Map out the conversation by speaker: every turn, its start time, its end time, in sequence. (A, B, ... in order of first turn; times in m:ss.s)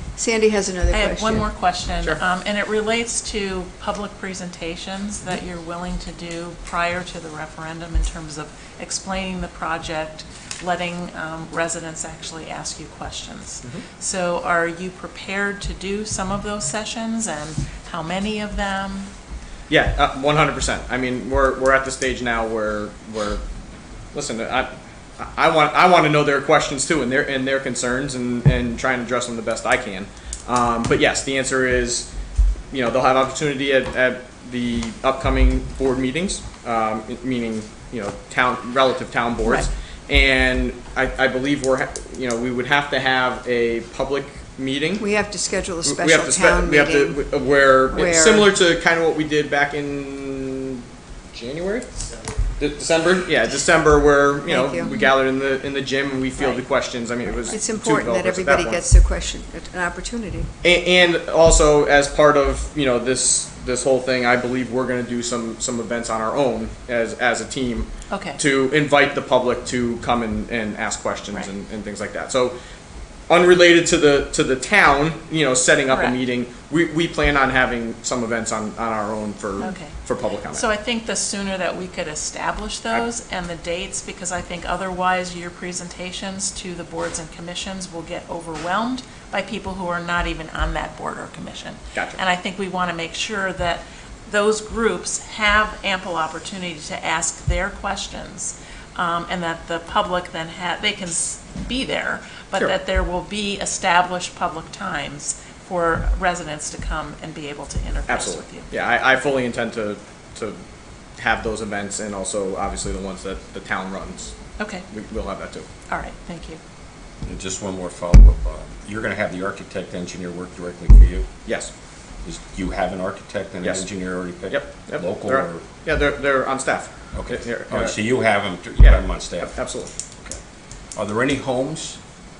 0:00.2-0:01.5 A
0:00.9-0:19.1 B
0:19.7-0:23.4 C
0:24.1-0:32.1 C
0:32.7-0:45.1 C
0:45.0-0:47.2 A
0:45.8-0:51.9 C
0:47.9-0:48.5 A
0:52.6-0:58.8 C
0:54.4-0:55.0 A
0:57.3-1:00.5 A
1:00.6-1:12.6 C
1:08.1-1:08.4 B
1:13.3-1:20.6 C
1:15.9-1:16.2 B
1:19.6-1:20.0 B
1:20.5-1:48.7 B
1:31.9-1:32.2 C
1:48.1-1:50.6 C
1:51.2-1:54.4 C
1:54.6-1:54.8 B
1:54.9-1:55.7 C
1:55.9-1:56.6 B
1:57.2-2:01.3 D
2:01.4-2:01.7 C
2:02.2-2:05.7 D
2:03.6-2:03.9 C
2:04.5-2:08.0 C
2:07.1-2:09.5 D
2:08.8-2:09.9 C
2:10.9-2:12.0 D